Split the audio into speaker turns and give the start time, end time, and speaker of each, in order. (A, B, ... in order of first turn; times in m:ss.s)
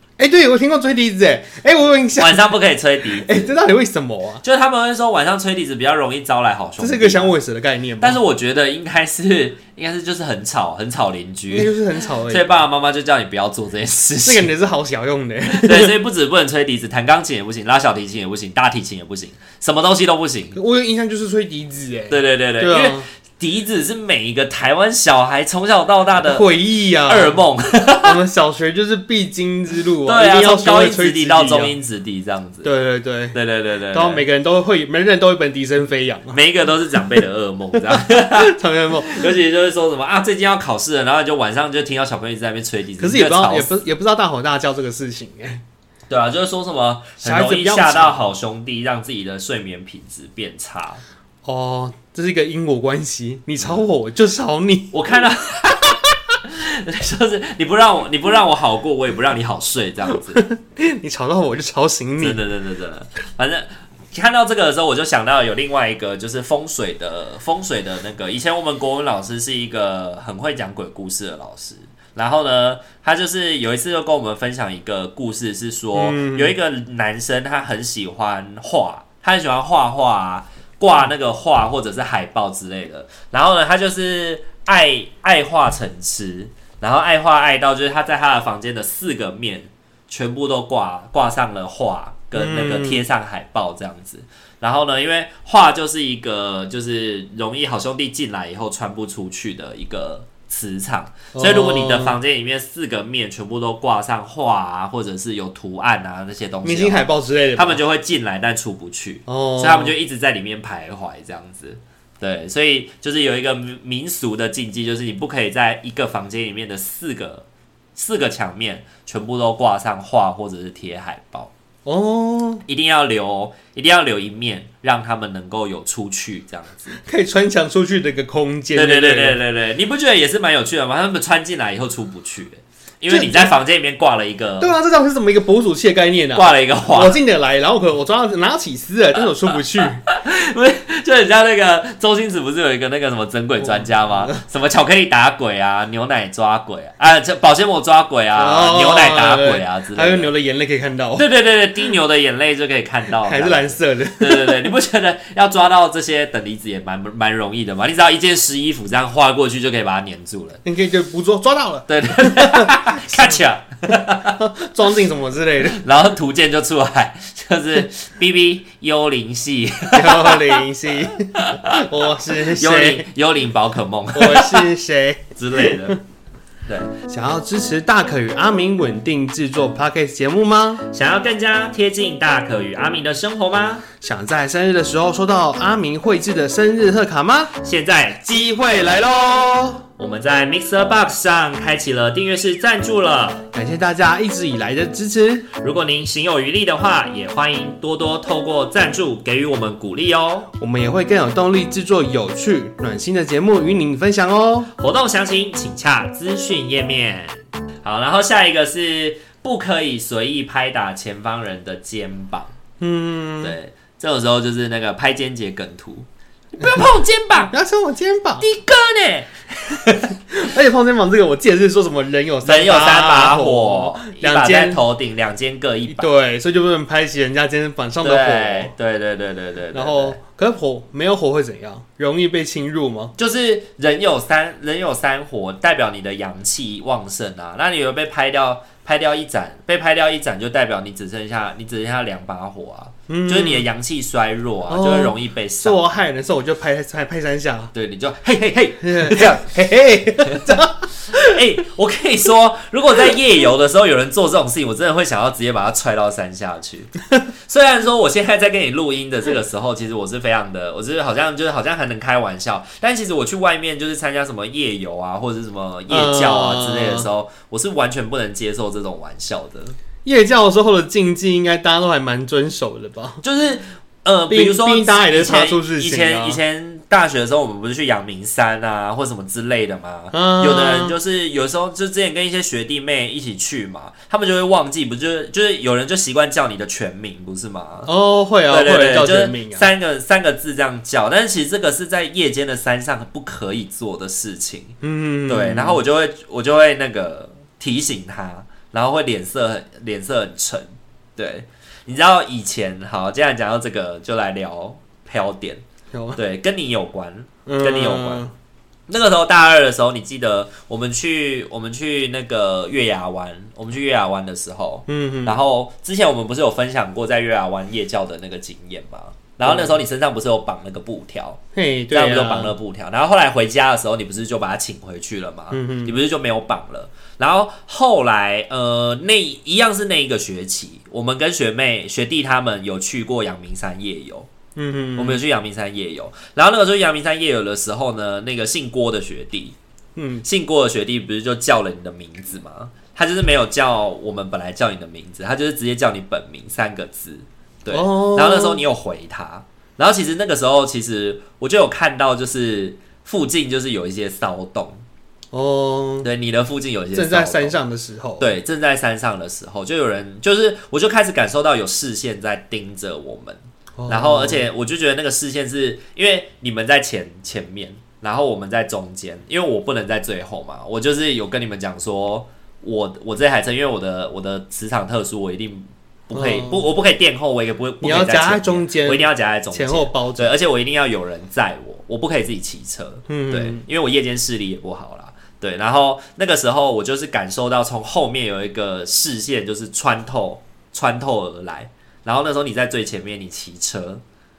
0:00.2-0:02.5 A
0:02.2-0:03.6 B
0:03.2-0:04.4 A
0:04.4-0:07.3 B
0:06.8-0:08.2 A
0:08.0-0:11.7 B
0:11.5-0:12.5 A
0:12.3-0:14.5 B
0:14.2-0:15.9 A
0:15.5-0:20.6 B
0:20.5-0:23.1 A
0:22.1-0:26.5 B
0:26.2-0:27.4 A
0:27.0-0:28.2 B
0:28.0-0:31.7 A
0:30.0-0:32.7 B
0:32.6-0:33.4 A
0:33.3-0:34.2 B
0:33.9-0:36.4 A
0:36.3-0:43.7 B
0:37.9-0:39.3 A
0:43.0-0:45.6 A
0:46.1-0:51.0 B
0:47.2-0:48.2 A
0:51.4-0:54.9 A
0:54.9-1:00.4 B
1:00.1-1:02.4 A
1:02.2-2:01.5 B
1:15.9-1:16.5 A
1:32.3-1:33.0 A
1:41.3-1:42.2 A
1:46.6-1:47.8 A
1:49.3-1:49.9 A
2:01.8-2:02.6 A
2:02.6-2:06.9 B
2:07.0-2:09.4 A
2:08.7-2:14.7 B
2:13.1-2:13.5 A
2:14.6-2:20.0 A
2:16.3-2:17.2 B
2:20.1-2:30.3 B
2:23.6-2:24.4 A
2:28.4-2:31.2 A
2:31.2-2:40.6 B
2:33.2-2:34.7 A
2:40.6-2:43.4 A
2:41.9-2:44.4 B
2:44.3-2:45.8 A
2:45.6-2:50.6 B
2:49.9-2:53.1 A
2:51.3-2:54.7 B
2:54.1-2:56.0 A
2:55.4-2:56.0 B
2:57.1-3:00.8 A
3:00.9-3:03.8 B
3:04.0-3:07.5 A
3:07.6-3:13.5 B
3:13.5-3:15.5 A
3:15.6-3:20.5 B
3:20.6-3:24.7 A
3:24.8-3:32.5 B
3:32.8-3:33.6 A
3:33.4-3:36.1 B
3:36.6-3:37.5 B
3:37.5-3:38.4 A
3:38.4-3:40.2 B
3:40.3-3:44.8 A
3:42.4-3:46.1 B
3:45.9-3:48.7 A
3:48.0-3:50.2 B
3:49.7-3:53.1 A
3:53.2-4:05.8 B
4:03.1-4:03.7 A
4:04.7-4:07.7 A
4:07.7-4:09.5 B
4:08.8-4:11.4 A
4:10.2-4:16.9 B
4:17.5-4:29.8 B
4:25.9-4:27.0 A
4:30.0-4:33.2 A
4:33.2-4:47.9 B
4:34.3-4:36.4 A
4:40.1-4:41.0 A
4:47.8-4:49.7 A
4:48.5-4:54.8 B
4:54.8-4:55.8 A
4:55.3-5:05.6 B
5:05.9-5:06.2 A
5:06.1-5:08.2 B
5:07.4-5:08.3 A
5:08.9-5:21.4 B
5:14.9-5:15.4 A
5:19.4-5:19.7 A
5:21.5-5:22.6 A
5:21.9-5:34.3 B
5:25.5-5:25.9 A
5:34.6-5:35.2 A
5:35.0-5:39.5 B
5:40.0-5:40.2 A
5:40.2-5:54.8 B
5:47.7-5:48.6 A
5:55.3-5:56.1 A
5:56.0-5:57.6 B
5:56.9-5:58.3 A
5:58.2-6:34.0 B
6:03.8-6:04.5 A
6:16.1-6:16.6 A
6:17.8-6:20.3 A
6:23.1-6:23.6 A